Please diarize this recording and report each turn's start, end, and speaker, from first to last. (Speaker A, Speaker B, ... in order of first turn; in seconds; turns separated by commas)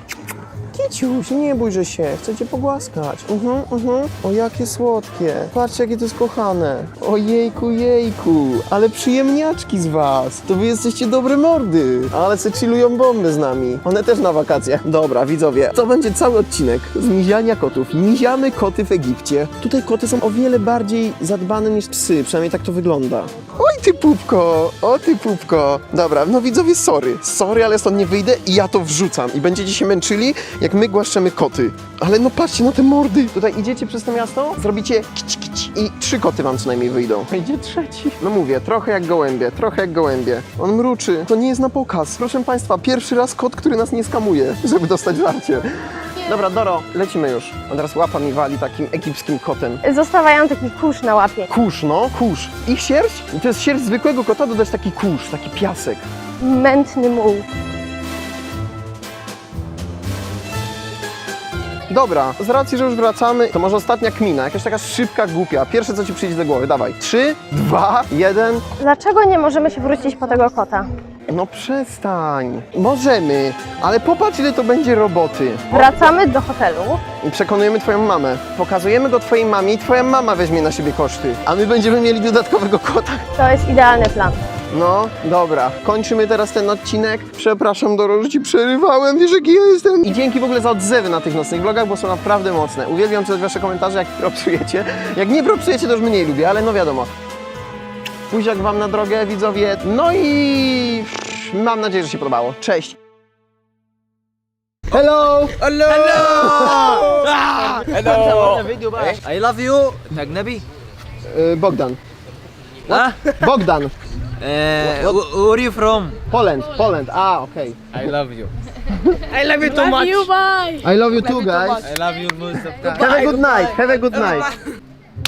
Speaker A: 0.7-49.8, Speaker B: 49.8-51.5, Speaker A: 51.5-56.0, Speaker B: 56.4-57.5, Speaker A: 61.9-68.7, Speaker B: 68.8-70.9, Speaker A: 71.3-76.1, Speaker B: 75.7-77.0, Speaker A: 77.2-83.3, Speaker B: 83.4-84.4, Speaker A: 84.7-97.1, Speaker A: 98.3-103.0, Speaker A: 104.9-107.4, Speaker C: 105.6-110.6, Speaker A: 111.3-112.0, Speaker C: 112.9-113.2, Speaker A: 112.9-113.9, Speaker C: 114.4-116.2, Speaker A: 114.8-115.2, Speaker A: 116.3-118.0, Speaker C: 118.0-118.5, Speaker C: 119.2-120.3, Speaker B: 119.6-121.8, Speaker A: 120.8-121.9, Speaker C: 121.8-123.9, Speaker A: 122.8-124.5